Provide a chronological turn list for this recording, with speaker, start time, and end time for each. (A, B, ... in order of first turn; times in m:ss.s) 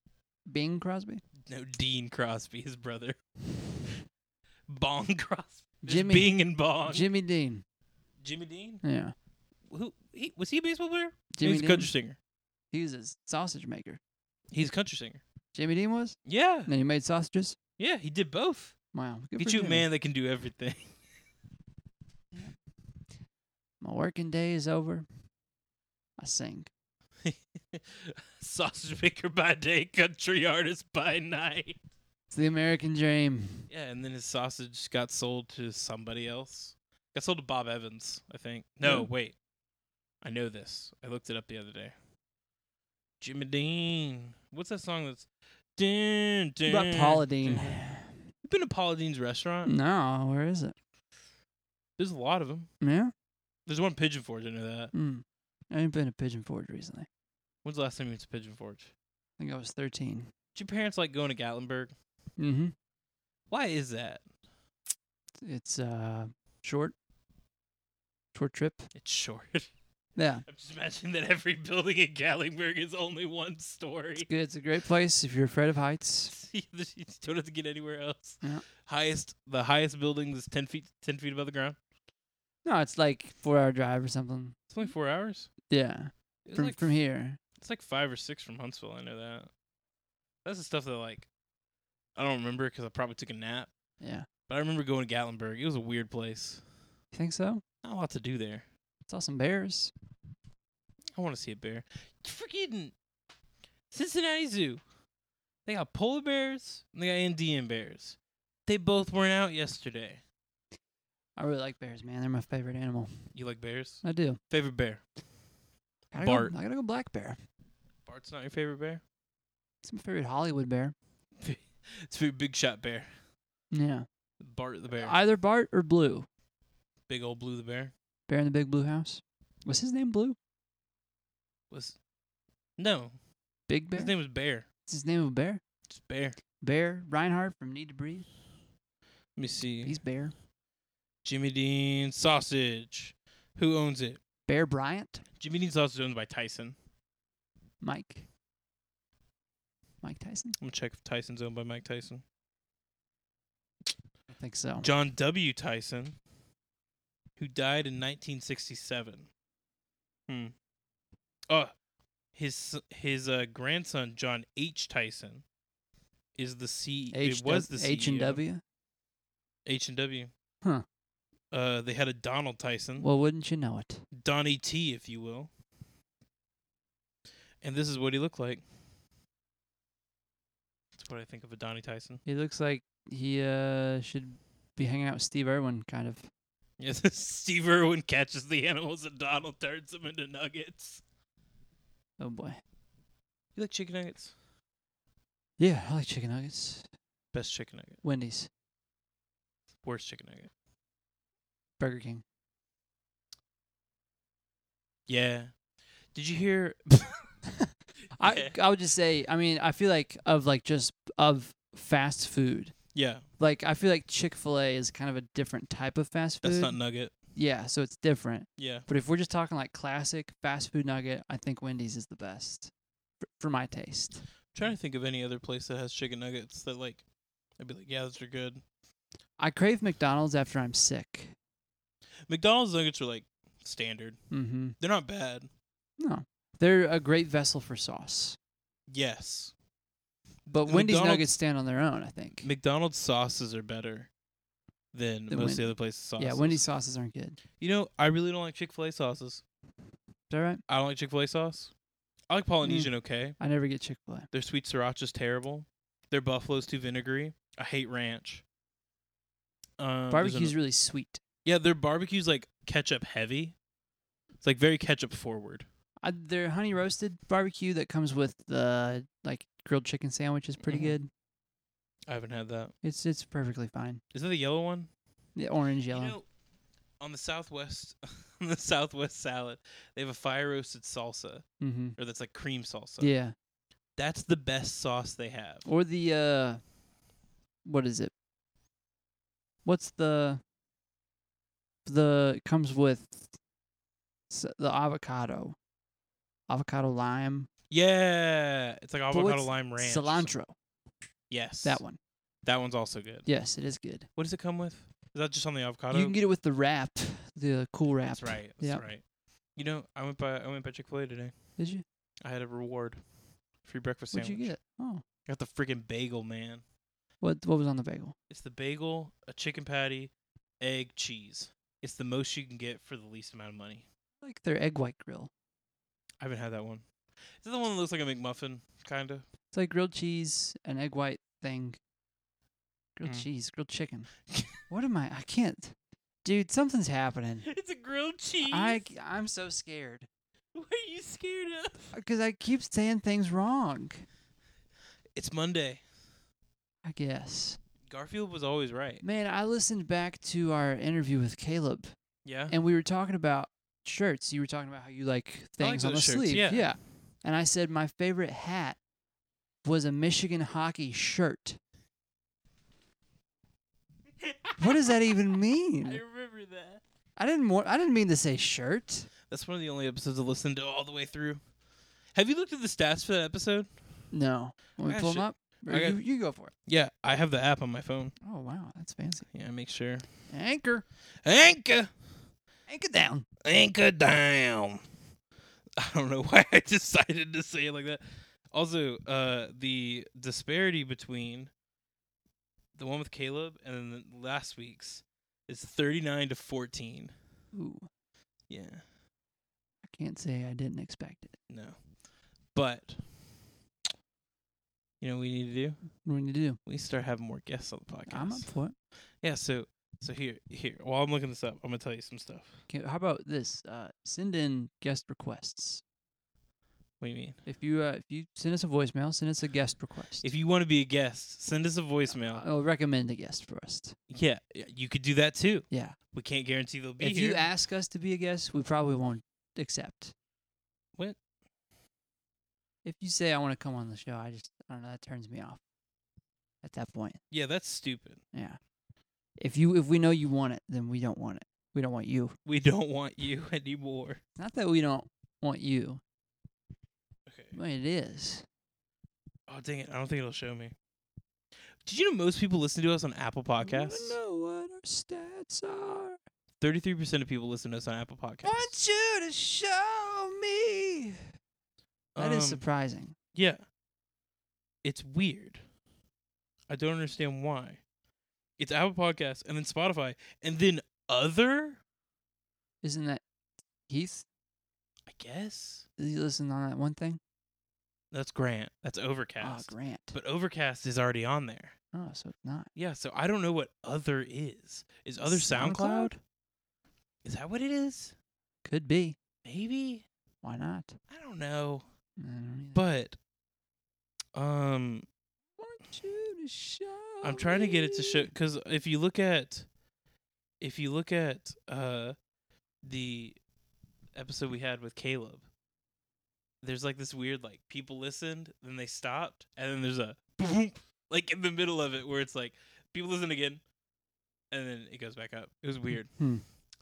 0:00.5-0:01.2 A
0:01.4-0:03.2 B
0:04.7-0:07.1 B
0:05.8-0:07.6 A
0:08.2-0:08.8 B
0:08.8-0:09.1 A
0:09.7-0:12.2 B
0:11.3-0:11.9 A
0:12.7-0:14.0 A
0:14.5-0:15.2 B
0:15.5-0:17.6 A
0:16.3-0:16.7 B
0:17.8-0:18.7 B
0:18.9-0:19.8 A
0:19.4-0:20.9 B
0:23.8-0:25.1 A
0:26.2-0:26.7 A
0:27.2-0:31.8 B
0:32.3-0:33.7 A
0:33.7-0:39.4 B
0:38.8-0:39.1 A
0:40.2-0:42.0 B
0:43.2-0:47.8 B
0:46.7-0:48.2 A
0:48.4-0:49.7 B
0:49.6-0:50.8 A
0:52.0-0:52.7 B
0:52.8-0:53.1 A
0:53.7-0:54.9 B
0:54.9-0:57.1 A
0:57.6-0:58.9 B
0:59.4-1:00.3 A
1:00.6-1:01.9 B
1:02.4-1:02.7 A
1:03.5-1:04.2 B
1:05.4-1:07.0 A
1:08.3-1:08.9 A
1:09.0-1:09.7 B
1:10.2-1:10.4 A
1:10.5-1:14.3 B
1:14.2-1:16.3 A
1:16.3-1:21.8 B
1:22.6-1:24.6 A
1:24.7-1:25.5 B
1:25.7-1:27.4 A
1:26.4-1:26.9 B
1:27.6-1:29.5 B
1:30.4-1:31.3 B
1:32.2-1:33.7 B
1:34.0-1:34.3 A
1:34.5-1:36.6 B
1:37.1-1:37.6 A
1:37.8-1:38.7 B
1:39.1-1:39.9 A
1:41.2-1:42.9 B
1:43.9-1:44.8 B
1:45.7-1:50.2 B
1:51.4-1:53.3 A
1:53.3-1:55.0 B
1:54.0-1:54.4 A
1:56.1-1:57.4 A
1:56.2-1:56.5 B
1:58.1-1:59.0 B
1:59.8-2:01.0 A
2:01.4-2:03.1 B
2:03.7-2:04.1 A
2:04.4-2:05.1 B
2:04.9-2:06.3 A
2:07.1-2:07.9 B
2:08.3-2:10.4 A
2:11.7-2:12.0 B
2:12.8-2:13.2 B
2:13.7-2:14.2 A
2:13.9-2:14.7 B
2:14.9-2:15.6 A
2:15.9-2:16.4 B
2:16.6-2:18.3 A
2:19.4-2:20.0 B
2:19.8-2:20.3 A
2:21.2-2:24.2 B
2:24.5-2:25.2 A
2:25.4-2:26.8 B
2:27.8-2:28.3 A
2:30.0-2:30.6 A
2:30.6-2:32.2 B
2:34.3-2:34.9 A
2:34.8-2:36.2 B
2:37.4-2:39.3 B
2:40.3-2:40.5 B
2:42.3-2:45.4 B
2:46.4-2:48.4 B
2:47.1-2:48.6 A
2:49.7-2:50.3 B
2:51.5-2:53.1 B
2:53.0-2:54.0 A
2:54.1-2:55.5 B
2:57.6-2:58.6 B
3:01.0-3:02.2 B
3:02.2-3:06.3 A
3:06.8-3:11.0 B
3:12.2-3:12.6 A
3:13.6-3:14.3 B
3:15.6-3:16.9 A
3:17.3-3:18.0 B
3:18.0-3:18.5 A
3:19.8-3:20.5 B
3:21.8-3:22.2 A
3:25.1-3:25.6 B
3:26.1-3:27.3 B
3:27.6-3:32.8 A
3:28.1-3:28.6 B
3:32.9-3:33.2 B
3:33.4-3:36.8 A
3:36.4-3:37.1 B
3:37.3-3:42.7 A
3:38.6-3:38.9 B
3:43.2-3:44.2 A
3:44.5-3:47.0 B
3:47.6-3:48.6 B
3:49.4-3:51.4 A
3:52.3-3:54.2 B
3:54.3-3:54.8 A
3:54.8-3:55.5 B
3:56.0-3:58.4 A
3:58.9-3:59.5 B
4:00.5-4:01.3 B
4:00.5-4:02.5 A
4:02.4-4:04.1 B
4:04.9-4:06.6 B
4:05.3-4:07.4 A
4:07.6-4:09.4 B
4:10.3-4:10.6 A
4:10.7-4:11.7 B
4:12.3-4:13.4 B
4:12.6-4:14.3 A
4:14.3-4:18.4 B
4:19.8-4:20.6 B
4:20.1-4:21.2 A
4:21.4-4:23.6 B
4:24.4-4:25.7 B
4:26.0-4:31.1 A
4:30.6-4:31.0 B
4:32.1-4:32.7 B
4:32.8-4:34.0 A
4:34.1-4:34.9 B
4:35.4-4:36.2 A
4:35.9-4:36.2 B
4:37.0-4:43.1 B
4:41.6-4:42.0 A
4:43.0-4:43.4 A
4:44.0-4:45.7 B
4:45.7-4:46.6 A
4:47.6-4:48.1 A
4:49.6-4:50.4 A
4:51.9-4:53.3 A
4:54.3-4:55.6 A
4:56.5-4:57.5 A
4:57.7-5:00.3 B
4:59.1-5:00.5 A
5:01.3-5:01.8 B
5:01.6-5:02.0 A
5:02.4-5:03.3 B
5:03.3-5:04.1 A
5:04.2-5:06.2 B
5:05.9-5:08.9 A
5:08.1-5:09.0 B
5:09.6-5:11.4 B
5:11.6-5:11.8 A
5:12.2-5:13.0 B
5:13.6-5:14.5 B
5:14.1-5:15.0 A
5:15.3-5:16.6 B
5:17.2-5:18.2 A
5:18.3-5:23.8 B
5:24.2-5:25.3 A
5:26.2-5:26.8 B
5:27.4-5:29.3 B
5:29.5-5:31.8 A
5:33.0-5:34.1 A
5:34.3-5:34.6 B
5:34.7-5:37.5 A
5:37.4-5:38.9 B
5:38.4-5:40.1 A
5:40.5-5:41.9 B
5:41.9-5:44.1 A
5:45.2-5:45.8 B
5:46.8-5:47.6 A
5:47.9-5:49.0 B
5:49.0-5:51.9 A
5:52.2-5:52.5 B
5:52.5-5:58.8 A
5:55.6-5:56.7 B
5:59.6-6:01.6 A
6:04.2-6:05.0 B
6:04.6-6:06.0 A
6:05.8-6:06.8 B
6:07.2-6:09.1 A
6:09.3-6:11.4 B
6:12.1-6:13.7 B
6:14.1-6:16.5 A
6:14.8-6:16.0 B
6:16.7-6:18.1 B
6:18.2-6:19.3 A
6:19.3-6:20.1 B
6:20.3-6:20.8 A
6:21.2-6:21.9 B
6:22.7-6:23.3 A
6:23.4-6:24.8 B
6:25.8-6:31.5 B
6:32.8-6:37.1 B
6:37.5-6:37.9 A
6:38.5-6:38.8 B
6:39.8-6:41.4 A
6:41.5-6:41.8 B
6:42.5-6:43.4 B
6:45.0-6:45.8 B
6:46.0-6:46.6 A
6:46.6-6:48.5 B
6:48.1-6:48.8 A
6:49.2-6:52.6 B
6:52.7-6:55.8 A
6:57.0-6:57.4 B
6:57.5-7:00.3 A
7:00.2-7:02.4 B
7:02.2-7:04.0 A
7:04.1-7:07.5 B
7:05.7-7:06.0 A
7:07.0-7:10.1 A
7:12.8-7:15.6 A
7:16.6-7:17.2 A
7:17.3-7:18.2 B
7:18.3-7:18.6 A
7:19.4-7:22.4 A
7:22.5-7:24.2 B
7:24.4-7:26.0 A
7:27.3-7:27.6 B
7:27.5-7:28.5 A
7:29.5-7:30.8 B
7:31.8-7:34.2 B
7:33.6-7:36.2 A
7:36.6-7:38.7 B
7:38.4-7:41.2 A
7:42.2-7:42.7 B
7:42.2-7:43.2 A
7:43.4-7:43.6 B
7:44.8-7:45.6 B
7:46.7-7:47.8 B
7:48.6-7:51.8 B
7:52.8-7:53.2 A
7:53.9-7:54.3 A
7:55.1-7:55.9 B
7:56.0-7:57.2 A
7:58.1-8:01.8 B
7:59.4-8:00.2 A
8:01.9-8:02.7 A
8:02.8-8:06.1 B
8:05.2-8:06.2 A
8:07.2-8:08.1 B
8:08.6-8:09.2 A
8:09.4-8:10.0 B
8:10.4-8:11.0 A
8:11.1-8:11.9 B
8:12.2-8:12.8 A
8:12.8-8:13.2 B
8:14.4-8:15.1 B
8:15.6-8:18.3 A
8:17.2-8:19.7 B
8:20.6-8:22.2 B
8:22.8-8:23.4 B
8:24.1-8:25.5 B
8:26.6-8:33.6 B
8:34.5-8:36.2 B
8:35.9-8:36.4 A